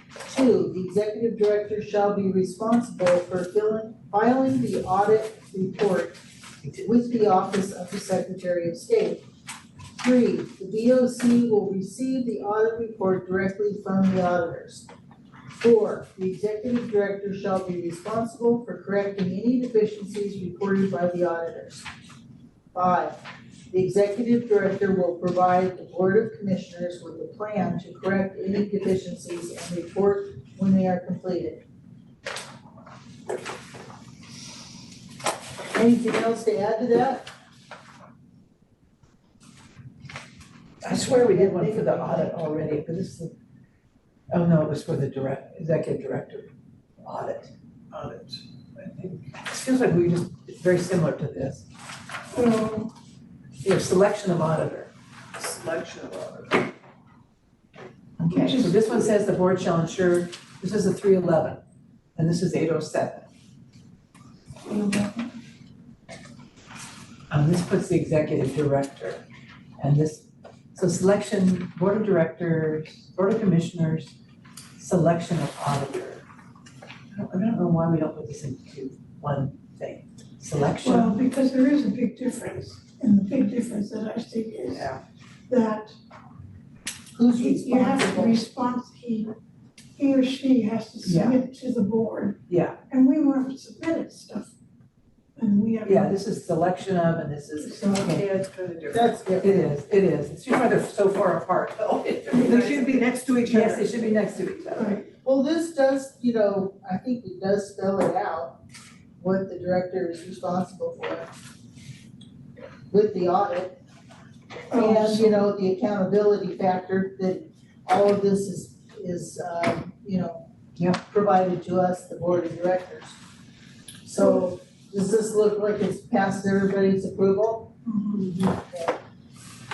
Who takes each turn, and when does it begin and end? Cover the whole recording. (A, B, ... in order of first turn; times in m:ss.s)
0:00.2-0:06.2 A
0:06.8-0:09.2 A
0:10.0-0:14.9 A
0:15.5-0:21.8 A
0:22.7-0:23.2 A
0:23.7-0:31.6 A
0:35.7-0:37.3 A
0:40.8-0:43.3 B
0:40.9-0:42.4 A
0:44.3-0:46.5 B
0:47.0-0:47.5 B
0:47.9-0:48.4 C
0:48.8-0:51.7 B
0:52.3-0:52.9 D
0:53.6-0:54.9 B
0:55.3-0:56.7 C
0:58.2-1:01.6 B
0:58.2-0:58.9 D
1:02.2-1:03.3 B
1:04.6-1:05.3 D
1:07.3-1:09.2 B
1:09.8-1:14.1 B
1:14.8-1:16.2 B
1:17.1-1:21.2 B
1:20.8-1:24.9 D
1:24.7-1:25.0 B
1:25.5-1:25.9 D
1:27.1-1:28.4 A
1:27.3-1:29.3 D
1:30.0-1:34.5 D
1:31.0-1:31.4 B
1:32.5-1:32.8 B
1:35.4-1:36.2 D
1:35.8-1:38.2 B
1:37.6-1:38.1 D
1:38.0-1:39.2 C
1:38.9-1:39.7 A
1:39.4-1:45.0 B
1:42.3-1:43.9 C
1:44.7-1:45.0 D
1:45.2-1:48.6 A
1:49.2-1:51.3 A
1:52.9-1:53.8 A
1:54.7-1:55.5 D
1:54.7-2:00.4 A
2:01.0-2:03.2 A
2:04.0-2:07.7 A
2:08.0-2:08.5 C
2:08.7-2:08.9 A